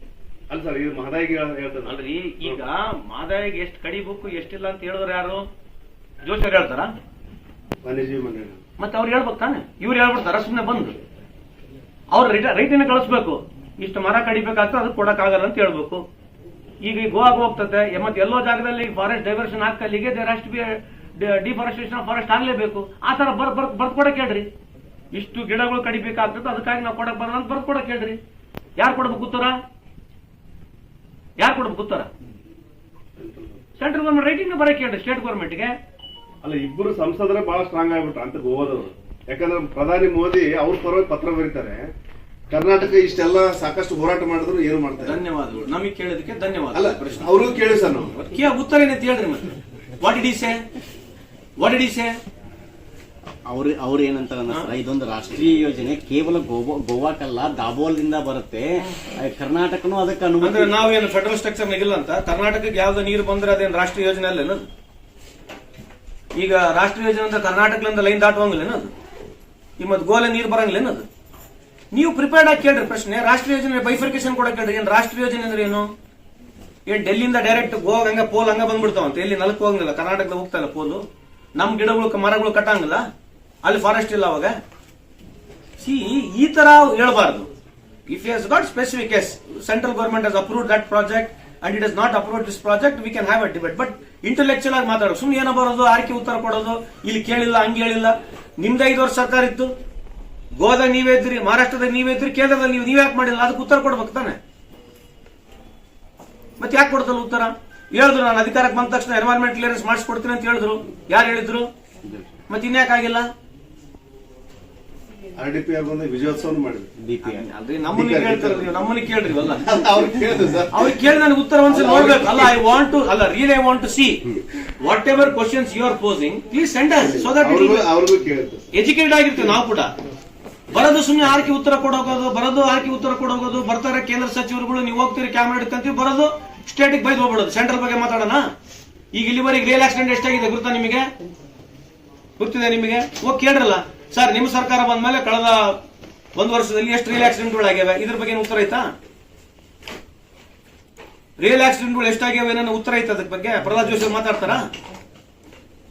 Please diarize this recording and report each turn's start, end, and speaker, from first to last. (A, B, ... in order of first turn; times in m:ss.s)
0:00.5-0:01.9 A
0:01.8-0:05.4 B
0:06.2-0:06.9 B
0:07.8-0:08.6 A
0:08.8-0:11.0 B
0:12.1-0:16.0 B
0:16.8-0:24.5 B
0:25.1-0:28.2 B
0:28.8-0:29.6 B
0:31.4-0:32.1 B
0:33.2-0:33.6 A
0:33.8-0:35.7 B
0:36.4-0:41.8 A
0:42.5-0:45.2 A
0:45.0-0:47.5 B
0:46.7-0:48.1 A
0:48.1-0:50.6 B
0:51.6-0:52.2 B
0:53.5-1:00.7 C
1:00.4-1:04.6 B
1:06.3-1:08.9 B
1:09.8-1:11.1 B
1:11.9-1:15.9 B
1:16.8-1:21.0 B
1:21.6-1:23.1 B
1:23.6-1:24.6 B
1:25.8-1:27.5 B
1:28.1-1:39.7 B
1:40.6-1:44.4 B
1:46.6-1:51.7 B
1:52.5-1:53.2 B
1:55.4-1:56.9 A
1:57.0-1:57.5 C
1:57.2-1:59.6 B
1:57.9-1:58.8 A
1:59.6-2:01.0 A
2:00.7-2:07.9 B
2:01.7-2:02.5 A
2:07.0-2:08.7 A
2:08.7-2:09.9 B
2:10.7-2:18.4 B
2:19.1-2:21.1 B
2:22.4-2:25.8 B
2:26.3-2:28.9 B
2:31.4-2:34.7 B